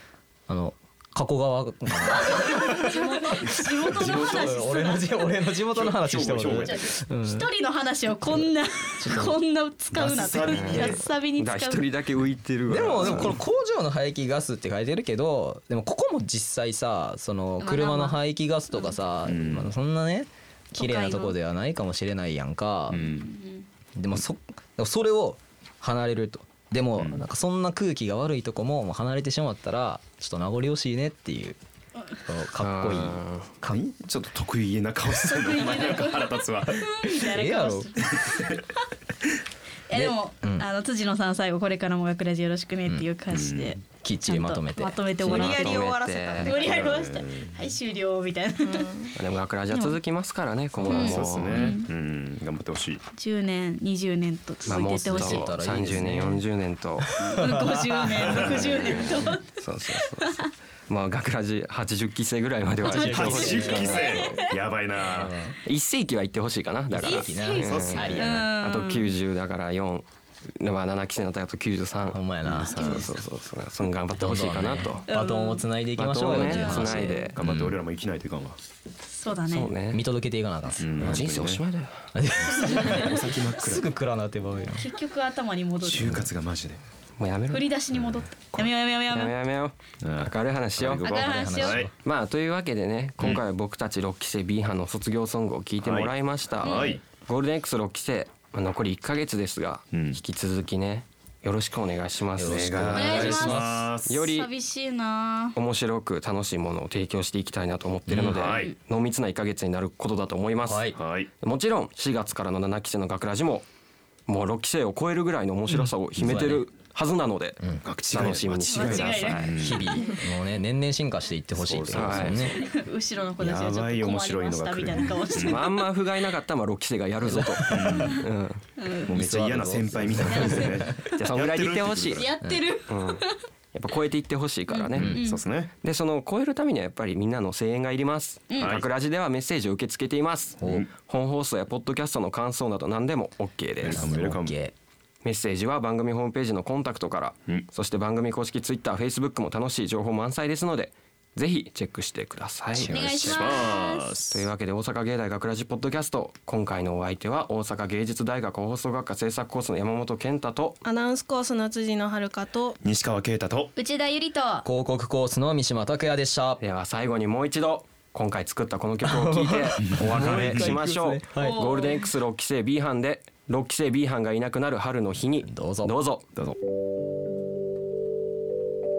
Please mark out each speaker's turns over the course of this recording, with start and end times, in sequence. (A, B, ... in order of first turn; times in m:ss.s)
0:00.5-0:07.5 A
0:02.1-0:05.1 B
0:03.4-0:05.0 C
0:05.6-0:06.9 C
0:06.5-0:11.9 B
0:09.0-0:09.4 A
0:09.9-0:11.1 C
0:10.4-0:13.4 D
0:12.7-0:23.1 A
0:12.9-0:13.4 C
0:17.6-0:18.2 B
0:19.2-0:19.7 C
0:20.8-0:21.3 B
0:22.9-0:23.3 C
0:23.0-0:23.6 B
0:24.0-0:31.6 A
0:27.0-0:27.2 C
0:32.2-0:33.8 A
0:32.6-0:33.5 D
0:33.6-0:37.0 C
0:35.2-0:38.6 B
0:37.2-0:37.9 A
0:38.1-0:38.6 C
0:39.9-0:45.8 B
0:39.9-0:40.7 A
0:43.3-0:43.8 C
0:43.8-0:45.0 A
0:45.2-0:46.6 D
0:45.2-0:46.8 E
0:46.4-0:49.0 B
0:46.6-0:47.7 C
0:48.6-0:49.1 E
0:49.2-0:51.7 D
0:50.8-0:53.0 C
0:50.9-0:51.9 B
0:53.2-0:55.5 B
0:54.7-0:57.1 D
0:55.0-0:56.4 A
0:57.0-0:58.6 A
0:57.3-1:00.5 B
0:58.2-0:59.0 C
0:58.4-1:04.1 D
1:02.8-1:04.4 A
1:02.8-1:04.6 B
1:02.8-1:05.4 C
1:05.1-1:05.5 A
1:05.6-1:10.1 D
1:06.9-1:08.5 A
1:07.0-1:09.1 B
1:07.6-1:08.5 C
1:10.6-1:15.0 D
1:12.1-1:13.1 A
1:12.5-1:13.0 C
1:12.8-1:13.1 B
1:14.2-1:17.8 A
1:15.1-1:15.6 B
1:16.0-1:17.4 D
1:16.3-1:17.2 B
1:17.4-1:18.6 C
1:19.1-1:19.7 B
1:19.5-1:20.0 D
1:19.9-1:21.3 A
1:20.8-1:21.6 C
1:21.0-1:22.1 D
1:22.1-1:24.9 A
1:22.6-1:23.9 C
1:22.6-1:22.9 B
1:24.7-1:26.1 B
1:25.8-1:26.8 C
1:27.2-1:27.7 D
1:27.5-1:29.3 B
1:29.1-1:31.0 D
1:30.0-1:31.9 C
1:31.0-1:31.8 B
1:31.1-1:31.9 A
1:31.9-1:44.5 D
1:35.8-1:37.0 C
1:36.6-1:37.0 B
1:39.9-1:40.2 C
1:42.4-1:43.8 A
1:42.7-1:44.2 C
1:42.9-1:43.7 B
1:44.2-1:45.6 B
1:45.6-1:53.6 D
1:48.1-1:48.6 A
1:48.2-1:48.7 C
1:50.6-1:51.0 A
1:50.9-1:51.3 C
1:54.3-1:59.6 D
1:56.2-1:56.6 A
1:57.6-1:58.4 A
1:57.8-2:00.0 C
1:58.7-2:00.2 B
1:59.6-2:02.6 A
2:01.5-2:02.6 C
2:01.9-2:02.5 D
2:02.5-2:05.8 B
2:03.4-2:05.6 C
2:05.4-2:08.6 D
2:07.2-2:08.2 A
2:07.7-2:08.2 C
2:08.8-2:09.2 B
2:09.0-2:10.9 A
2:09.1-2:12.3 C
2:10.2-2:11.2 B
2:11.2-2:12.3 D
2:12.2-2:13.4 B
2:12.9-2:15.2 D
2:14.7-2:15.4 B
2:15.0-2:15.7 C
2:15.8-2:24.2 D
2:18.6-2:18.8 C
2:20.6-2:20.9 A
2:20.6-2:20.9 C
2:23.8-2:24.6 C
2:23.8-2:24.7 A
2:25.2-2:33.5 D
2:32.7-2:34.4 C
2:32.8-2:34.2 B
2:34.3-2:40.8 D
2:40.8-2:42.8 E
2:42.8-2:43.7 C
2:43.8-2:44.6 B
2:44.6-2:46.6 A
2:46.6-2:56.2 D
2:49.0-2:51.6 A
2:49.8-2:50.7 C
2:51.4-2:52.1 B
2:55.4-2:55.9 A